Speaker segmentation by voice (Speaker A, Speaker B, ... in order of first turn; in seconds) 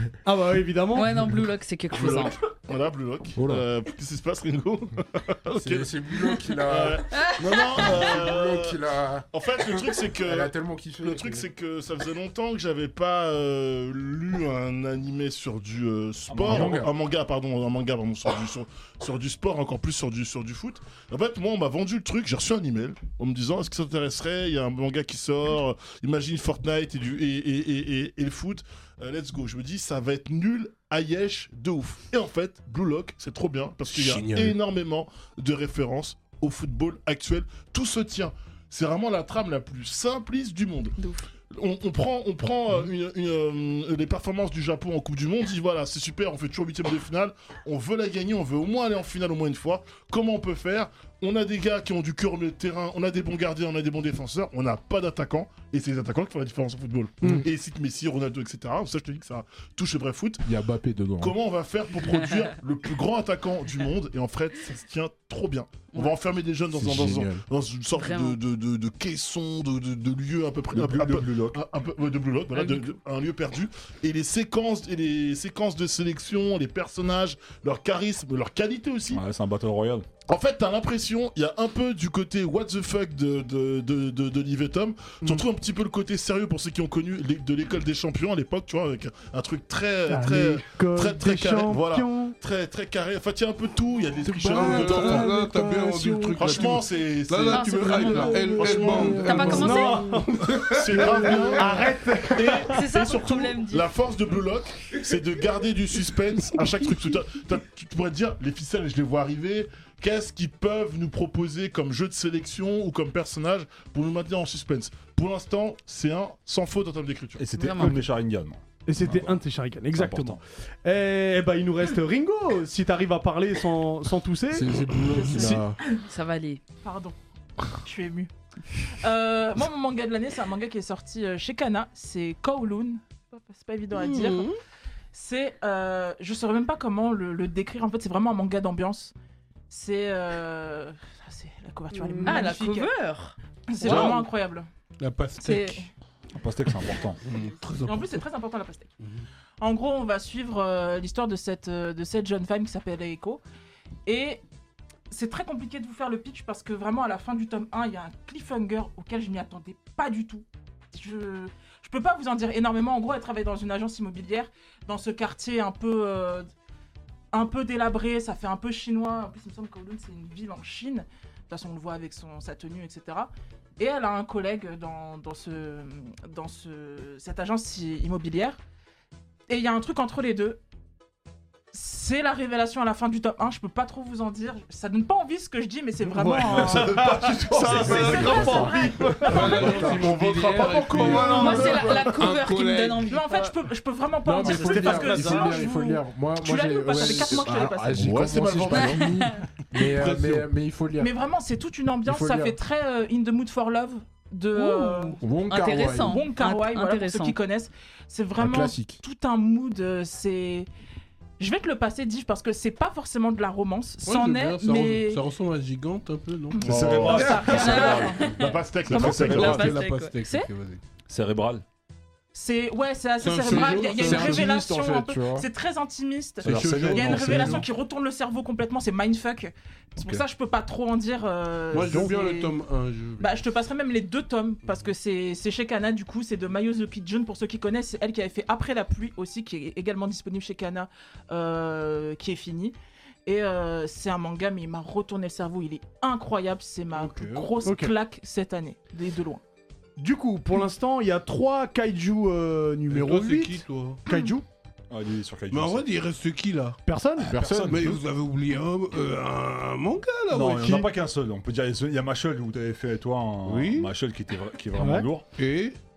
Speaker A: 0.2-1.1, 90.1-92.3, 94.3-96.3, 98.5-102.6, 118.8-125.6, 186.0-189.8, 194.4-195.6, 231.8-232.1, 247.6-247.9, 250.0-254.4, 256.8-257.3, 260.6-260.9, 264.8-265.1
Speaker B: 0.9-2.4, 7.1-8.0, 67.9-68.4, 72.6-72.9, 97.5-100.2, 102.7-103.9, 117.5-118.0, 126.1-126.6, 141.9-144.2, 191.1-193.5, 198.7-199.4, 204.5-207.4, 217.4-218.6, 219.2-220.5
Speaker C: 1.9-5.9, 6.7-8.8, 9.3-10.5, 11.0-41.0, 41.5-60.4, 61.2-79.2, 80.3-95.3, 96.3-99.8, 100.7-117.5, 188.8-192.3, 197.9-199.1, 216.6-219.6
Speaker D: 3.3-3.6, 5.5-9.2, 10.1-11.5, 16.5-16.9, 60.4-61.4, 66.8-67.4, 124.5-125.8, 187.7-190.7, 194.2-201.1, 202.0-202.6, 205.2-206.2, 208.4-209.0, 223.5-225.5, 257.3-258.0
Speaker E: 16.3-16.9, 70.7-71.6, 79.1-80.0, 117.4-119.4, 119.9-120.4, 143.8-144.2, 146.3-147.2, 186.4-188.5, 216.6-218.2, 218.9-219.7, 221.1-221.6, 226.4-227.7, 254.9-255.8, 257.3-258.0, 260.3-265.2
Speaker F: 33.9-34.5, 94.5-101.9, 104.9-105.2, 133.9-134.6, 145.0-145.9, 147.2-148.2, 189.2-193.1, 199.9-200.5, 214.0-217.6, 219.0-220.8, 223.2-224.6, 226.4-227.7, 231.7-233.5, 246.9-247.7, 252.9-254.0, 255.5-256.8, 257.3-260.9, 263.4-263.9, 265.4-265.8
Speaker G: 125.1-126.0, 126.8-127.2, 127.7-128.3, 129.0-134.5, 135.1-139.1, 139.7-142.9, 143.7-144.7, 145.4-145.9, 147.8-148.9, 149.6-153.4, 154.1-154.4, 155.1-166.5, 167.3-178.6, 179.5-180.6, 181.7-187.0, 193.0-198.3, 201.0-205.2, 206.0-210.7, 211.4-215.2, 217.0-219.6, 222.3-232.5, 233.2-249.4